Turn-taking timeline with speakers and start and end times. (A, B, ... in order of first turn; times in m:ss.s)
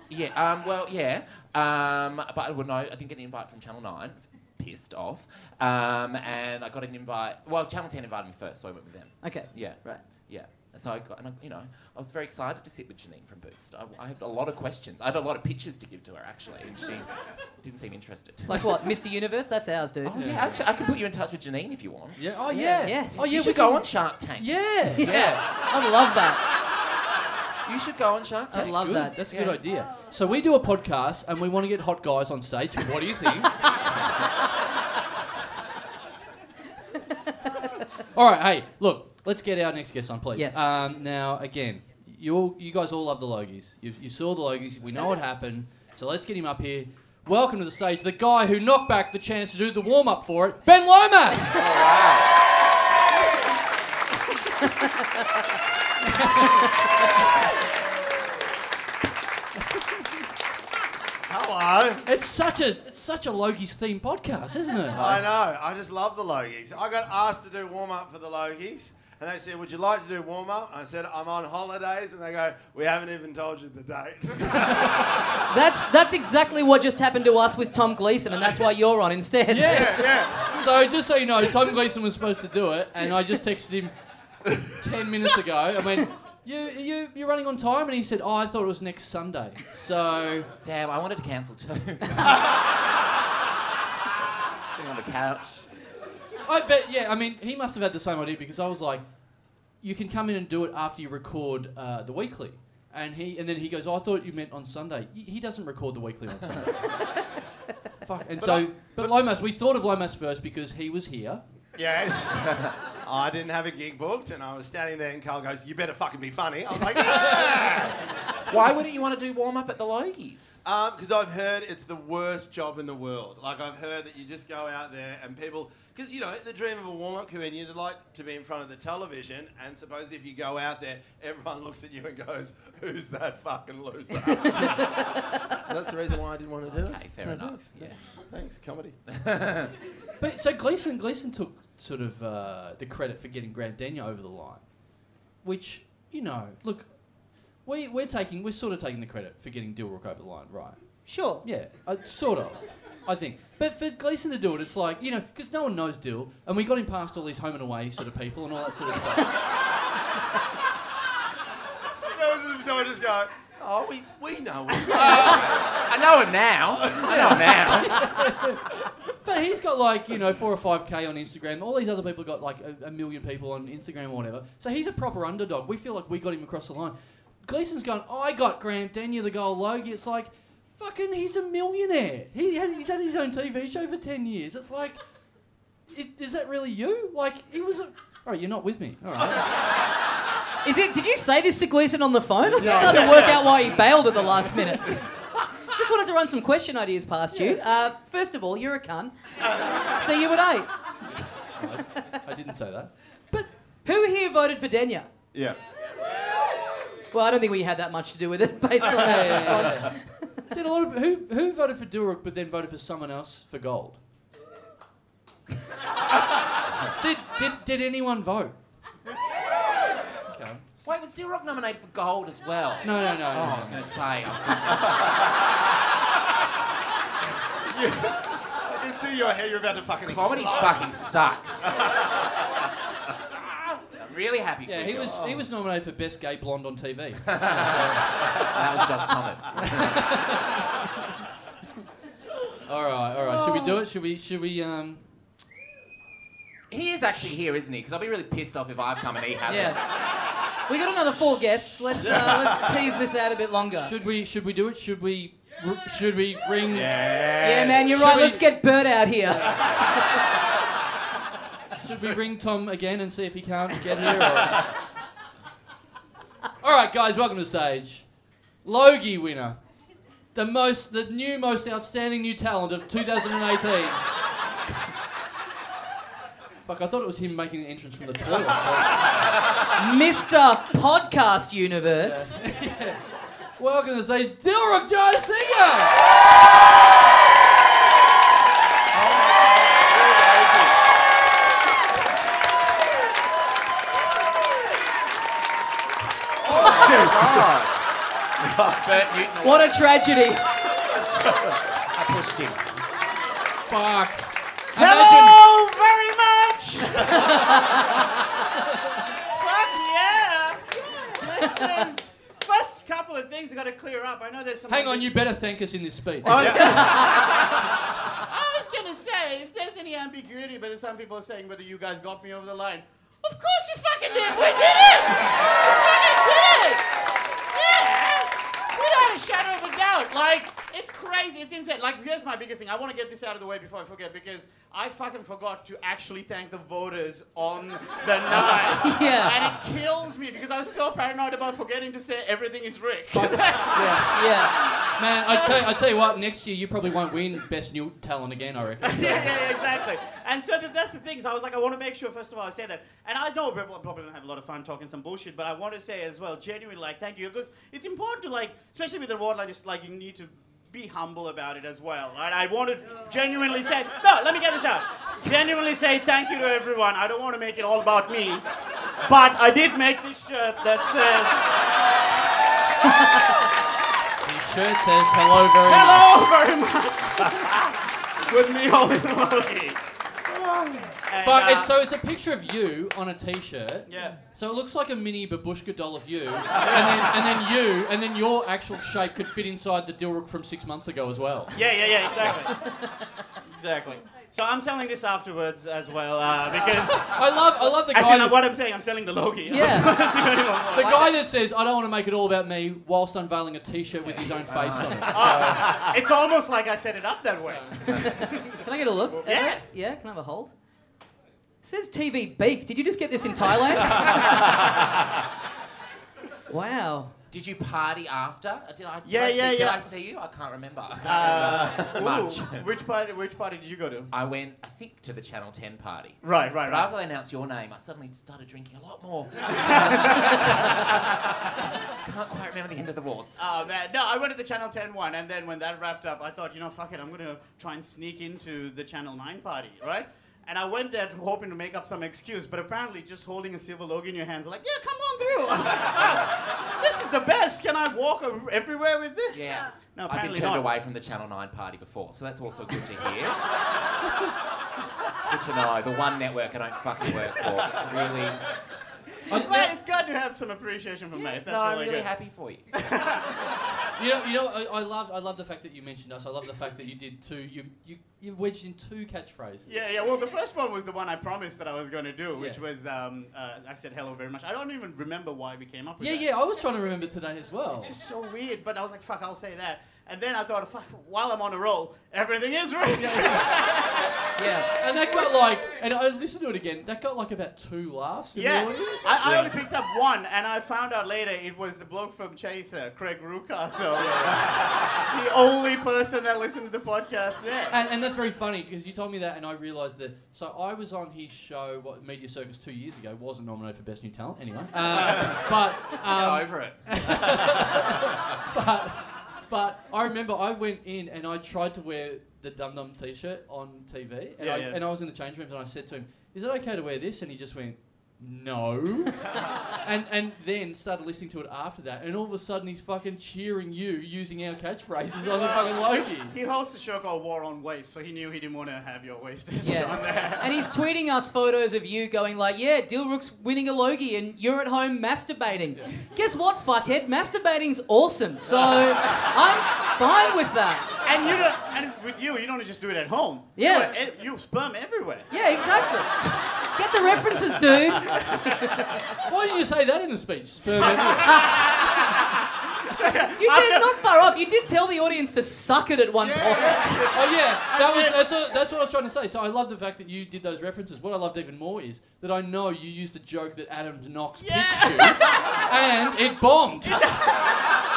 0:00.1-0:17.1 A
0:09.2-0:10.0 B
0:17.6-0:18.7 A
0:18.5-0:20.2 B
0:20.0-0:22.3 A
0:20.1-0:20.6 C
0:22.2-0:25.1 C
0:22.5-0:23.3 B
0:22.9-0:25.5 A
0:25.0-0:26.4 B
0:27.7-0:29.6 A
0:28.5-0:29.2 B
0:28.5-0:33.8 C
0:38.1-0:51.6 C
0:40.4-0:40.9 B
0:51.5-0:52.4 A
0:56.0-0:56.7 C
1:01.3-1:02.0 D
1:02.0-1:05.3 C
1:04.9-1:14.9 D
1:14.5-1:14.9 C
1:15.5-1:20.1 B
1:19.5-1:23.9 C
1:19.6-1:20.6 D
1:24.7-1:30.5 C
1:30.6-1:32.6 A
1:34.7-1:35.6 A
1:36.4-1:39.0 C
1:39.8-1:46.9 C
1:48.0-1:51.4 C
1:48.4-1:49.1 D
1:51.8-1:58.0 D
1:52.5-1:52.7 A
1:58.5-2:00.6 A
2:00.6-2:14.9 D
2:15.6-2:19.0 D
2:16.7-2:18.1 A
2:19.1-2:19.7 A
2:20.2-2:24.6 C
2:25.4-2:26.9 C
2:27.6-2:30.8 C
2:31.1-2:31.4 B
2:31.4-2:39.3 C
2:42.0-2:45.7 D
2:44.8-2:48.1 A
2:46.8-2:47.7 D
2:47.6-2:48.6 C
2:49.2-3:05.0 C
3:05.9-3:09.5 C
3:10.6-3:15.1 B
3:12.5-3:13.0 C
3:12.6-3:13.7 D
3:15.6-3:19.1 B
3:19.9-3:20.7 B
3:21.6-3:23.4 C
3:23.8-3:25.1 B
3:25.3-3:25.6 D
3:27.1-3:30.4 B
3:28.9-3:30.0 C
3:30.5-3:34.0 C
3:37.0-3:38.5 C
3:40.3-3:40.7 C
3:40.8-3:45.2 A
3:42.8-3:43.8 C
3:47.7-3:50.9 D
3:50.1-3:51.7 A
3:51.6-3:52.1 D
3:54.0-3:55.3 A
3:54.7-3:58.1 C
3:57.3-4:00.1 A
3:59.6-4:00.6 C
4:02.7-4:05.0 C
4:06.7-4:09.8 A
4:09.5-4:09.8 B
4:10.7-4:13.9 B
4:12.0-4:12.8 D
4:13.8-4:17.0 C
4:16.7-4:17.8 E
4:17.1-4:17.4 D
4:17.4-4:20.0 B
4:17.8-4:18.5 C
4:21.8-4:24.7 C
4:26.6-4:28.1 C
4:28.6-4:29.6 C
4:30.4-4:34.0 C
4:36.7-4:39.3 C
4:39.8-4:42.4 B
4:42.0-4:43.0 C
4:43.6-4:46.0 C
4:56.5-4:57.8 A
4:56.5-4:57.5 D
4:58.4-4:58.9 D
4:58.7-4:59.8 A
4:59.4-5:00.6 B
5:01.9-5:02.7 A
5:03.7-5:05.4 C
5:04.8-5:07.5 E
5:07.2-5:08.0 B
5:09.3-5:15.1 E
5:14.7-5:16.5 C
5:16.2-5:26.9 E
5:27.5-5:44.4 E
5:38.8-5:39.5 B
5:43.1-5:44.2 C
5:44.1-5:44.6 B
5:45.0-5:49.4 C
5:45.3-5:45.6 E
5:48.8-6:08.4 E
6:09.0-6:11.7 E
6:12.8-6:13.1 E
6:14.2-6:16.1 C
6:15.6-6:21.7 E
6:21.2-6:31.6 C
6:23.9-6:24.2 E
6:26.7-6:27.0 E
6:31.5-6:32.7 E
6:33.6-6:37.2 E
6:36.9-6:38.4 C
6:37.7-6:41.1 E
6:39.5-6:39.9 B
6:40.7-6:45.7 C
6:44.1-6:45.4 A
6:45.1-6:48.3 E
6:47.5-6:47.8 C
6:47.9-6:50.5 B
6:49.2-6:49.6 E
6:51.6-6:54.5 B
6:56.5-6:57.1 B
6:57.3-7:02.7 A
6:59.0-6:59.8 E
7:01.0-7:04.1 E
7:04.1-7:11.1 A
7:06.2-7:06.9 E
7:09.4-7:10.9 E
7:11.9-7:13.4 A
7:13.4-7:30.7 E
7:29.3-7:33.4 A
7:35.3-7:38.4 A
7:39.3-7:39.7 C
7:39.3-7:42.1 E
7:41.1-7:42.7 A
7:42.7-7:43.3 E
7:44.0-7:49.9 C
7:49.7-7:56.3 E
7:52.4-7:52.6 C
7:56.0-7:57.9 C
7:57.8-8:04.6 E
8:03.0-8:03.6 C
8:04.4-8:04.7 B
8:04.8-8:09.5 C
8:08.3-8:17.7 E
8:14.0-8:14.4 C
8:17.7-8:39.3 C
8:24.9-8:25.5 A
8:26.0-8:27.6 A
8:34.4-8:34.8 E
8:39.8-8:46.4 C
8:45.3-8:50.7 E
8:49.6-9:01.0 B
9:01.0-9:05.3 E
9:03.6-9:03.9 B
9:05.3-9:09.0 B
9:08.0-9:08.8 E
9:09.2-9:11.4 C
9:10.8-9:14.1 E
9:13.4-9:17.0 B
9:16.2-9:17.0 D
9:16.6-9:18.2 E
9:17.1-9:27.2 C
9:24.4-9:25.6 E
9:26.8-9:27.5 E